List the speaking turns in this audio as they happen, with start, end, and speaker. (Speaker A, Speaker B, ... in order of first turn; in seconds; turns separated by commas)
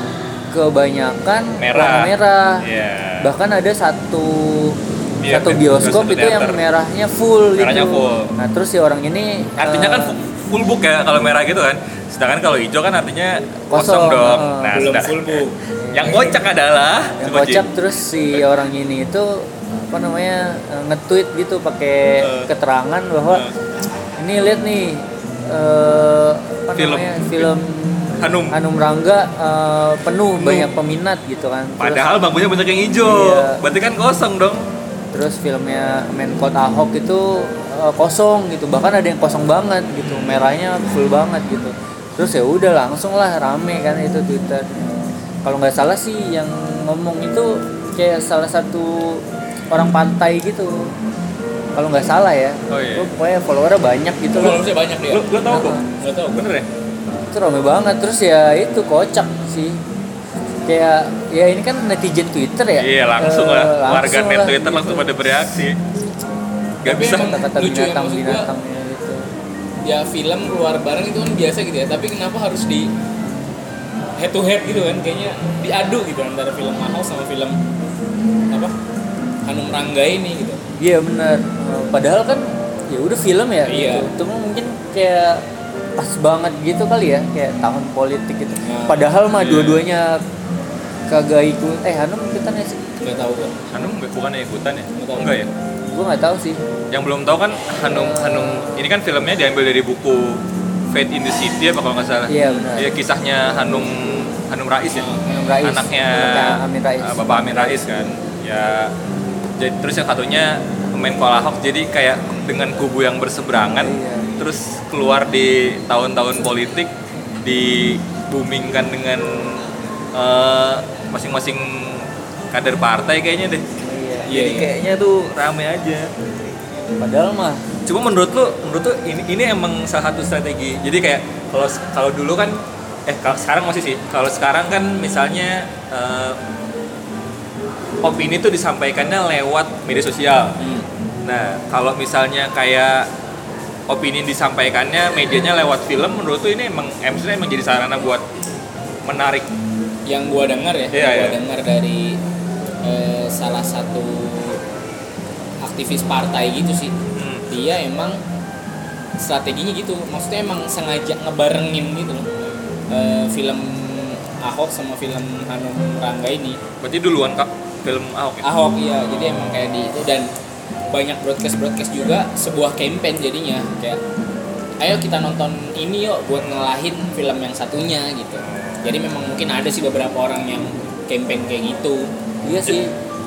Speaker A: 0.5-2.6, Speaker B: 1.6-3.3, Speaker A: 3.2-10.1, Speaker B: 5.2-6.6, Speaker B: 7.6-8.3, Speaker B: 9.6-17.7, Speaker A: 13.7-14.8, Speaker C: 14.7-15.6, Speaker A: 15.8-16.4, Speaker A: 17.2-23.4, Speaker B: 22.2-22.5, Speaker B: 23.3-23.6, Speaker A: 24.1-32.1, Speaker B: 26.8-27.5, Speaker B: 28.2-28.6, Speaker B: 30.4-30.7, Speaker B: 31.8-34.6, Speaker A: 33.0-33.6, Speaker A: 35.1-50.9, Speaker B: 40.0-40.5, Speaker A: 51.7-54.6, Speaker B: 52.7-53.1, Speaker C: 54.3-55.3, Speaker B: 55.1-56.7, Speaker A: 55.5-55.8, Speaker C: 55.9-56.5, Speaker A: 57.3-59.8, Speaker A: 60.6-65.1, Speaker B: 62.8-65.8, Speaker C: 66.8-68.5, Speaker B: 66.8-67.3, Speaker A: 66.8-69.3, Speaker C: 69.8-72.9, Speaker C: 74.2-77.6, Speaker C: 79.5-80.6, Speaker A: 80.8-85.4, Speaker C: 83.7-84.1, Speaker A: 86.0-90.2, Speaker C: 88.6-89.1, Speaker B: 89.3-89.8, Speaker A: 91.1-93.4, Speaker C: 93.0-93.5, Speaker B: 93.7-95.5, Speaker C: 94.9-95.3, Speaker A: 95.9-96.6, Speaker B: 96.9-108.9, Speaker A: 97.8-98.7, Speaker A: 102.3-102.9, Speaker C: 104.9-105.4, Speaker A: 105.3-107.9, Speaker B: 109.6-123.6, Speaker A: 113.7-114.3, Speaker A: 123.8-124.3, Speaker B: 124.3-126.1, Speaker C: 124.3-124.7, Speaker A: 127.0-127.6, Speaker B: 127.8-136.4, Speaker B: 138.0-140.6, Speaker C: 140.6-140.8, Speaker B: 141.2-143.1, Speaker B: 143.9-148.2, Speaker B: 149.0-149.5, Speaker C: 150.1-152.2, Speaker B: 150.9-151.4, Speaker C: 152.8-154.6, Speaker C: 155.6-156.9, Speaker B: 157.1-157.5, Speaker C: 157.5-158.2, Speaker C: 159.2-162.3, Speaker C: 162.9-166.6, Speaker B: 166.8-168.5, Speaker C: 168.4-170.3, Speaker B: 169.2-169.4, Speaker C: 170.9-174.0, Speaker C: 174.8-182.1, Speaker A: 182.4-182.9